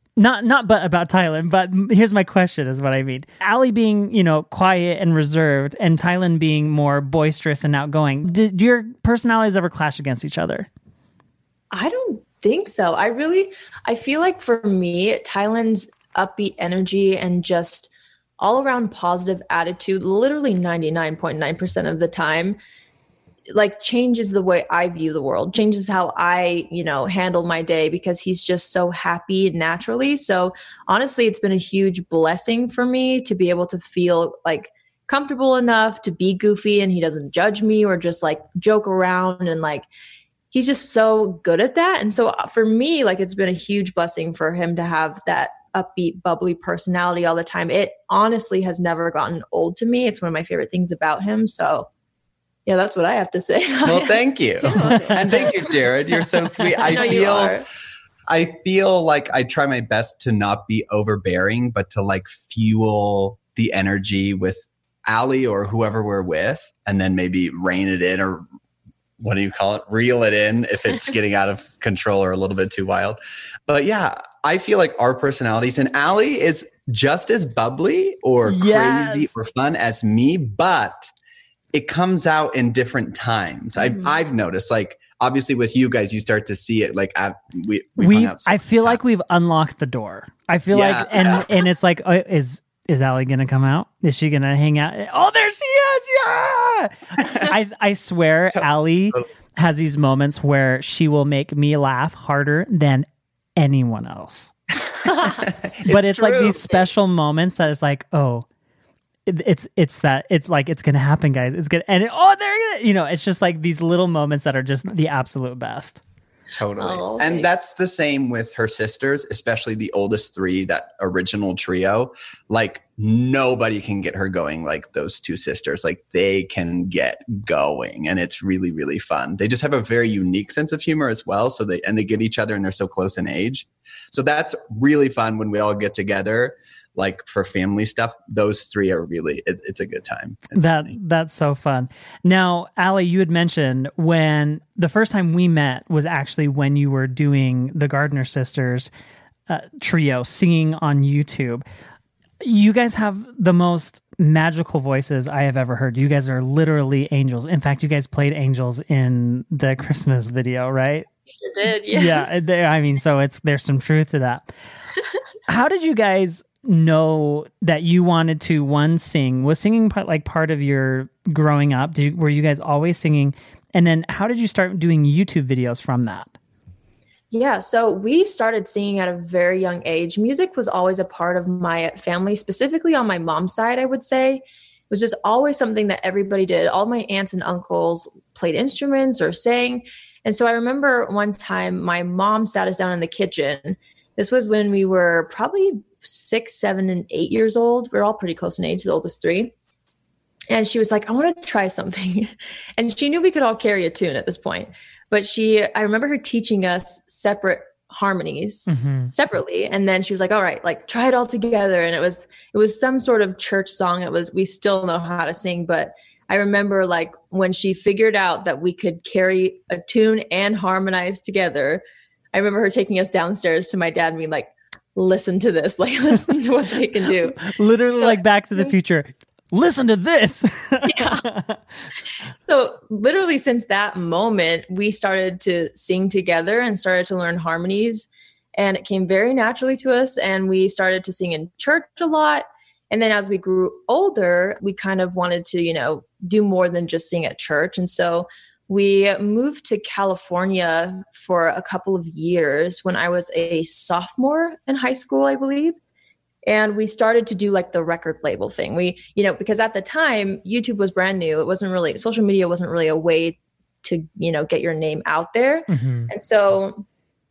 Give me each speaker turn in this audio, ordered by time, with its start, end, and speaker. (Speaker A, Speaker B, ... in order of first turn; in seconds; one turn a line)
Speaker A: 0.2-10.7
Speaker B: 11.7-22.6
Speaker B: 23.5-39.9
Speaker B: 40.5-51.9
Speaker B: 52.7-55.6
Speaker C: 53.9-57.6
Speaker A: 54.9-55.5
Speaker B: 56.8-57.7
Speaker C: 58.3-68.4
Speaker C: 69.2-81.1
Speaker A: 78.5-79.3
Speaker C: 81.7-89.0
Speaker A: 88.0-104.5
Speaker C: 90.7-91.5
Speaker C: 97.2-97.5
Speaker C: 105.2-106.7
Speaker A: 105.8-108.5
Speaker A: 109.3-116.0
Speaker C: 116.5-141.0
Speaker B: 116.8-117.5
Speaker A: 140.5-148.9
Speaker A: 149.5-151.6
Speaker A: 152.4-161.1
Speaker B: 161.4-162.4
Speaker A: 161.9-164.5
Speaker A: 165.5-176.3
Speaker B: 177.3-199.5
Speaker B: 200.5-228.7
Speaker A: 208.7-209.1
Speaker A: 227.4-231.6
Speaker B: 230.9-231.2
Speaker B: 232.4-255.8
Speaker B: 256.4-266.9
Speaker A: 265.7-266.1